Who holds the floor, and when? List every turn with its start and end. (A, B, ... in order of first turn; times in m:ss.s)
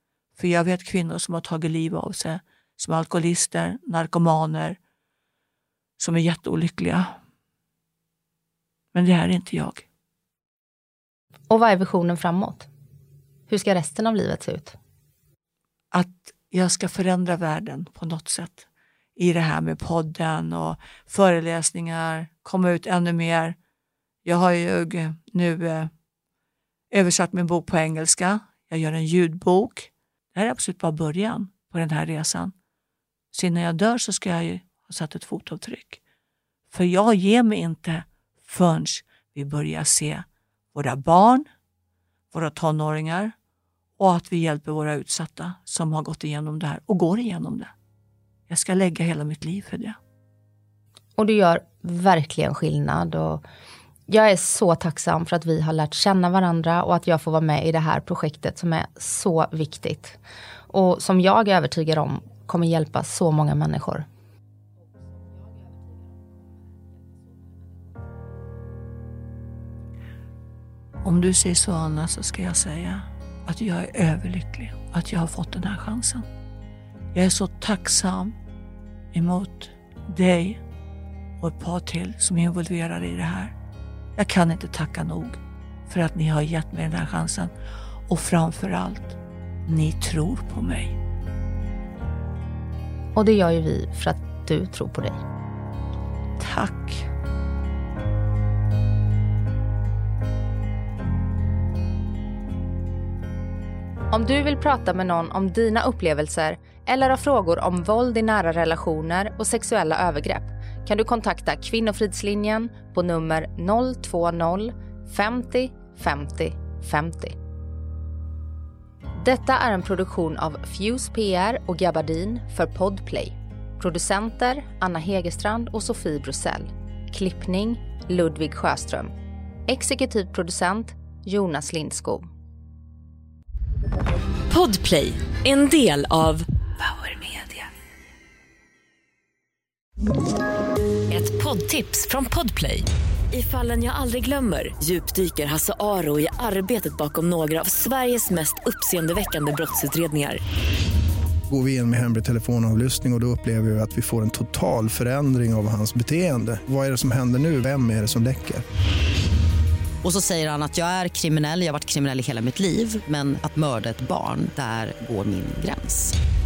0:00.4-0:04.8 A
0:06.0-0:07.2 A
0:08.9-0:09.8 A
0:11.5-0:12.7 B
0:13.5-0:14.8 B
0:15.9-0:18.6 A
0:19.2-0:23.6 A
0:24.2-0:25.9 A
0:26.9-0:32.5 A
0:33.3-0:36.0 A
0:36.7-0:41.4 A
0:42.3-0:43.3 A
0:44.0-0:47.7 A
0:48.5-0:50.0 A
0:51.2-0:53.4 B
0:54.1-1:00.2 B
1:00.7-1:04.0 B
1:11.0-1:16.2 A
1:17.1-1:18.3 A
1:19.1-1:20.6 A
1:21.4-1:23.5 A
1:24.2-1:27.5 A
1:28.1-1:31.0 A
1:33.1-1:35.2 B
1:36.4-1:37.1 A
1:44.1-1:57.4 B
1:59.1-2:09.1 B
2:09.7-2:12.3 B
2:14.5-2:17.7 C
2:21.1-2:30.4 C
2:31.5-2:38.6 D
2:40.0-2:46.1 E